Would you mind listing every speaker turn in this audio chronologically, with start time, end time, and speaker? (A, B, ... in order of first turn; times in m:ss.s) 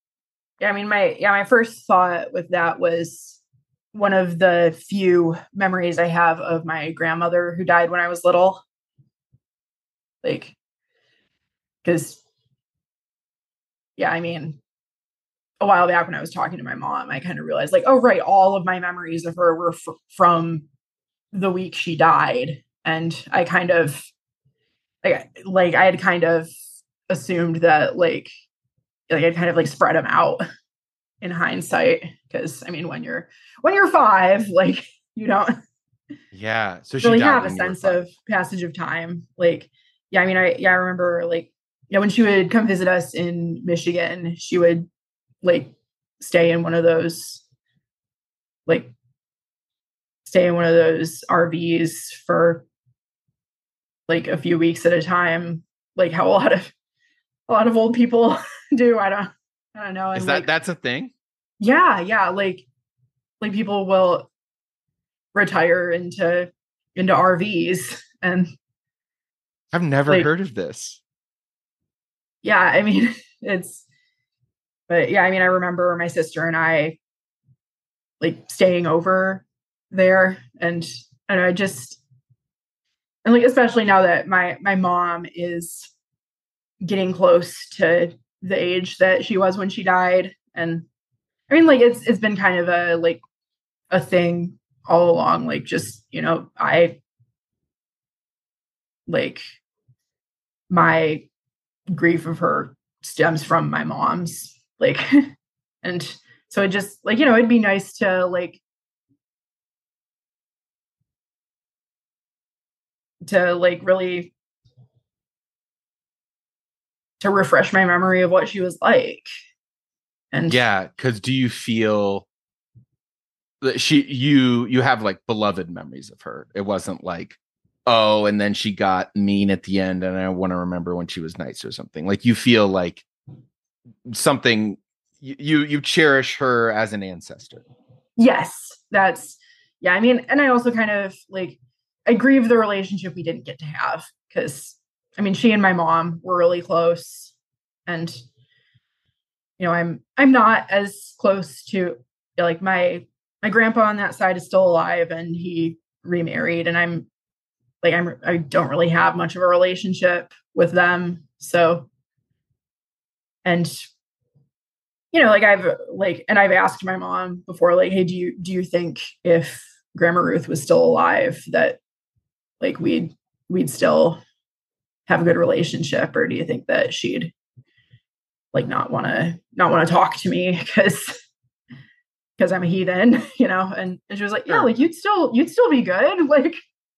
0:00.6-0:03.4 A
0:03.9-0:08.6 A
0:10.2-0:10.5 A
0:11.8-0:12.2 A
0:14.0-0:14.6 A
0:15.6-0:20.6 A
0:21.3-0:24.1 A
0:25.0-0:26.5 A
0:27.1-0:28.3 A
0:29.1-0:30.4 A
0:31.2-0:35.5 A
0:36.3-0:38.1 B
0:37.0-0:44.9 A
0:45.4-0:47.4 A
0:50.2-0:52.6 A
0:54.1-0:56.7 A
0:57.5-1:00.5 A
1:00.1-1:01.1 B
1:01.6-1:02.6 A
1:03.4-1:04.3 A
1:05.3-1:08.5 A
1:09.7-1:11.0 B
1:12.4-1:13.8 A
1:14.9-1:17.0 A
1:18.2-1:22.0 A
1:23.2-1:25.9 A
1:26.8-1:30.8 A
1:31.5-1:33.2 A
1:33.9-1:37.0 A
1:39.1-1:39.4 A
1:40.7-1:41.3 A
1:41.9-1:45.0 A
1:45.8-1:48.6 A
1:53.2-1:54.3 A
1:57.2-1:59.3 A
2:00.3-2:00.6 A
2:00.5-2:02.2 B
2:03.6-2:13.0 B
2:14.0-2:17.6 B
2:18.2-2:27.3 A
2:27.9-2:28.2 A
2:29.6-2:37.1 A
2:37.8-2:41.9 A
2:43.4-2:43.8 A
2:45.1-2:51.8 A
2:52.6-2:54.2 A
2:55.1-2:57.3 A
2:58.5-3:01.2 A
3:02.4-3:06.6 A